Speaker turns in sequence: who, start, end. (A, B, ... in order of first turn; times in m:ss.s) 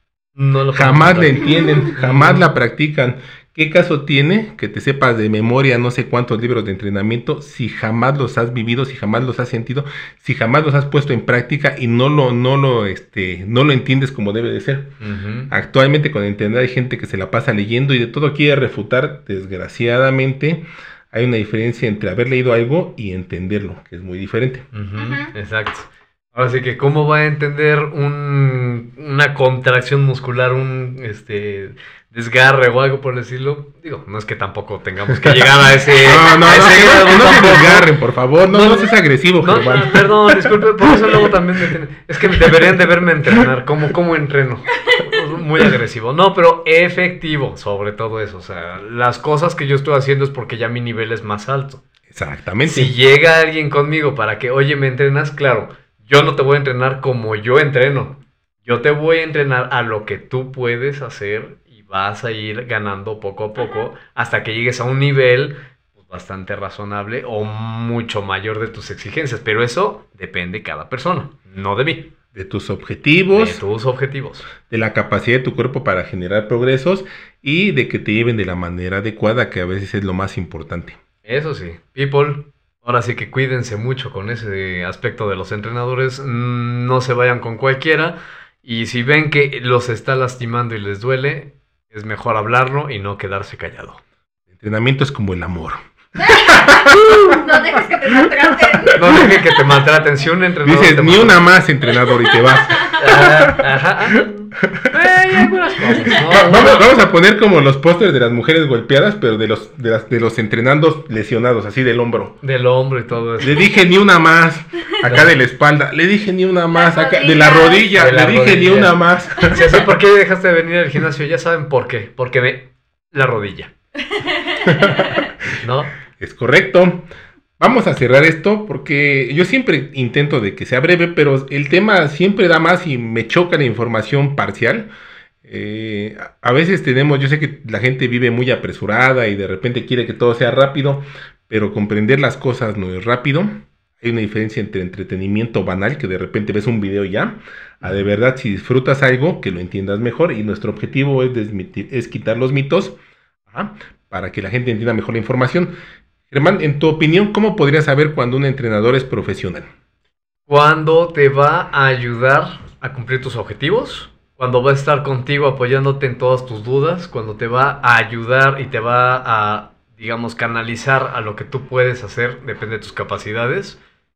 0:00.4-0:02.5 A
0:00.7-0:15.0 B
0:15.0-0:15.5 A
0:15.5-0:24.7 B
0:24.7-0:37.9 A
0:25.0-0:25.3 C
0:36.0-0:41.2 B
0:38.5-0:51.8 A
0:52.1-0:52.9 B
0:52.6-1:12.1 A
1:03.6-1:03.9 C
1:12.3-1:13.6 B
1:13.3-1:14.5 A
1:14.7-1:21.0 B
1:21.2-1:34.0 A
1:34.5-1:37.4 B
1:36.2-1:39.3 C
1:38.2-1:39.3 B
1:39.0-1:41.4 A
1:40.6-1:43.7 B
1:42.5-1:43.0 C
1:43.0-1:46.9 A
1:44.7-1:52.4 B
1:52.4-1:53.5 A
1:53.4-1:59.8 B
1:55.0-1:55.3 A
1:56.7-1:57.9 C
1:58.0-2:03.7 A
2:04.1-2:05.3 C
2:04.6-2:05.3 B
2:05.6-2:05.9 A
2:06.2-2:14.9 B
2:15.4-2:33.0 B
2:27.8-2:28.1 A
2:33.5-2:35.8 B
2:36.3-2:39.7 B
2:40.5-2:53.8 A